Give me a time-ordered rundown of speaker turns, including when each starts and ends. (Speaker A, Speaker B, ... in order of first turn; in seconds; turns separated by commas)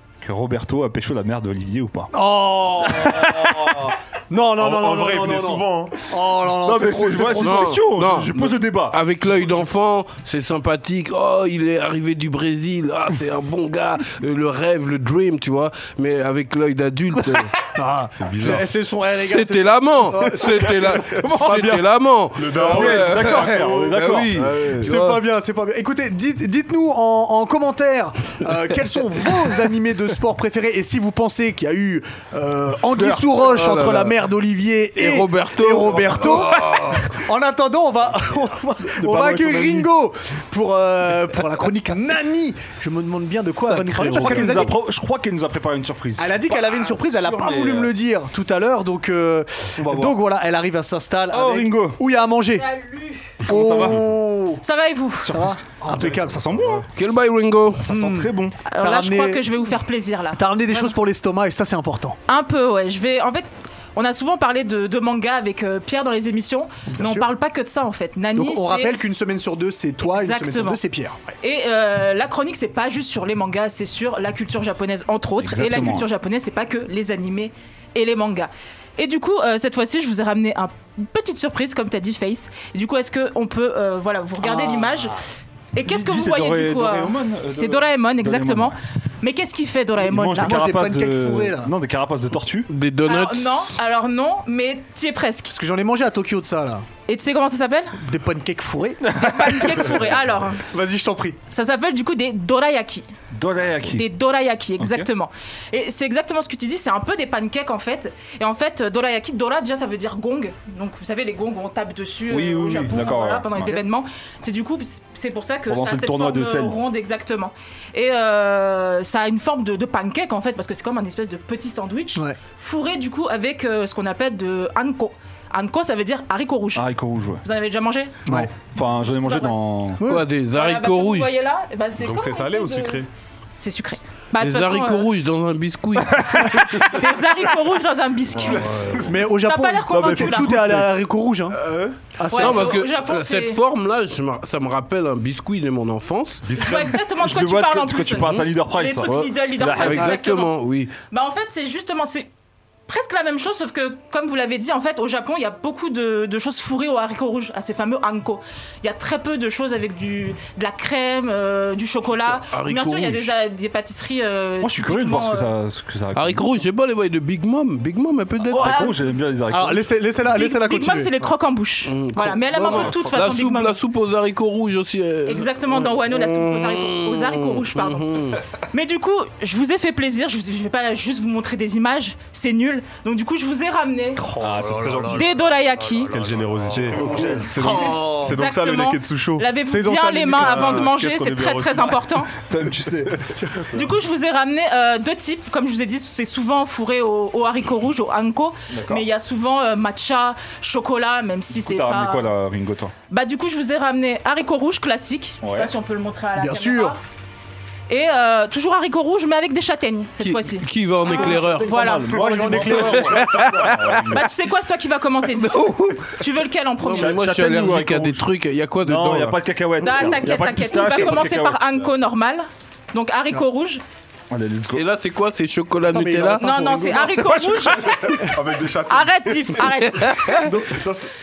Speaker A: 0.2-2.1, Speaker B: 2.1-7.8, Speaker A: 2.8-4.0, Speaker C: 4.6-6.0, Speaker A: 6.4-9.0, Speaker D: 7.4-17.5, Speaker B: 17.7-21.8, Speaker C: 18.1-18.7, Speaker D: 19.2-25.2, Speaker A: 21.2-21.8, Speaker C: 22.4-24.9, Speaker A: 22.6-24.7, Speaker B: 24.8-44.7, Speaker A: 32.9-33.2, Speaker D: 33.1-34.2, Speaker D: 35.0-37.1, Speaker A: 38.9-39.9, Speaker D: 43.5-44.7, Speaker A: 44.0-47.9, Speaker B: 46.2-52.7, Speaker A: 49.8-50.2, Speaker A: 51.3-52.0, Speaker E: 52.5-53.4, Speaker B: 53.4-54.6, Speaker A: 53.4-54.1, Speaker E: 54.6-55.4, Speaker A: 55.2-56.9, Speaker B: 55.2-56.4, Speaker C: 55.9-56.8, Speaker D: 56.9-57.9, Speaker A: 57.8-58.6, Speaker B: 57.9-59.5, Speaker E: 58.6-61.0, Speaker B: 60.3-62.2, Speaker E: 62.3-69.0, Speaker B: 66.9-67.3, Speaker B: 68.3-71.3, Speaker E: 70.0-70.8, Speaker E: 71.4-85.2, Speaker A: 75.4-76.1, Speaker B: 84.4-84.9, Speaker E: 85.7-90.6, Speaker A: 85.8-88.8, Speaker A: 90.0-92.7, Speaker B: 90.2-91.7, Speaker D: 92.7-93.7, Speaker E: 93.0-95.5, Speaker B: 95.5-96.9, Speaker E: 97.1-98.0, Speaker B: 98.0-99.8, Speaker A: 99.1-99.8, Speaker E: 99.1-100.6, Speaker B: 100.6-101.4, Speaker E: 101.5-103.0, Speaker A: 103.3-104.1, Speaker E: 103.9-126.8, Speaker A: 104.8-105.1, Speaker A: 112.3-113.8, Speaker A: 115.7-116.8, Speaker A: 126.7-127.4, Speaker E: 127.4-128.2, Speaker B: 128.2-128.5, Speaker A: 128.3-130.0, Speaker E: 129.1-129.5, Speaker B: 130.0-130.3, Speaker D: 130.0-131.3, Speaker E: 130.5-133.0, Speaker C: 132.0-133.1, Speaker E: 133.6-135.1, Speaker D: 134.4-136.6, Speaker E: 136.8-138.7, Speaker C: 138.5-139.1, Speaker D: 138.6-139.1, Speaker B: 139.1-141.6, Speaker E: 139.4-140.6, Speaker A: 139.9-141.0, Speaker C: 141.5-142.0, Speaker B: 142.2-142.7, Speaker E: 142.2-143.6, Speaker D: 142.3-146.5, Speaker C: 146.4-147.0, Speaker E: 146.6-152.3, Speaker A: 146.6-150.2, Speaker D: 149.0-150.9, Speaker E: 152.9-165.5, Speaker D: 162.3-163.3, Speaker A: 164.6-166.4, Speaker D: 166.1-168.9, Speaker E: 168.5-169.0, Speaker A: 168.5-170.0, Speaker B: 169.5-171.3, Speaker E: 170.3-173.8, Speaker D: 171.8-178.4, Speaker E: 175.2-184.3, Speaker A: 184.3-185.3, Speaker C: 184.7-185.2, Speaker E: 185.1-186.1, Speaker C: 186.0-189.5, Speaker A: 186.6-187.6, Speaker B: 186.9-188.4, Speaker E: 187.7-192.3, Speaker B: 189.6-190.9, Speaker C: 190.4-192.2, Speaker A: 192.4-193.8, Speaker B: 193.3-193.7, Speaker E: 193.7-202.3, Speaker A: 198.7-199.1, Speaker A: 201.5-202.9, Speaker E: 203.1-207.0, Speaker A: 205.4-205.7, Speaker B: 206.3-207.0, Speaker E: 207.9-212.2, Speaker D: 210.2-211.7, Speaker A: 211.1-214.3, Speaker B: 212.1-213.3, Speaker D: 212.5-214.2, Speaker E: 213.9-217.2, Speaker D: 215.4-216.2, Speaker D: 216.8-219.4, Speaker A: 216.9-218.3, Speaker A: 218.8-221.6, Speaker E: 219.8-223.8, Speaker A: 224.3-224.8, Speaker D: 224.7-226.5, Speaker B: 225.9-227.9, Speaker E: 226.4-230.7, Speaker C: 228.1-229.7, Speaker D: 229.9-230.4, Speaker C: 230.5-231.1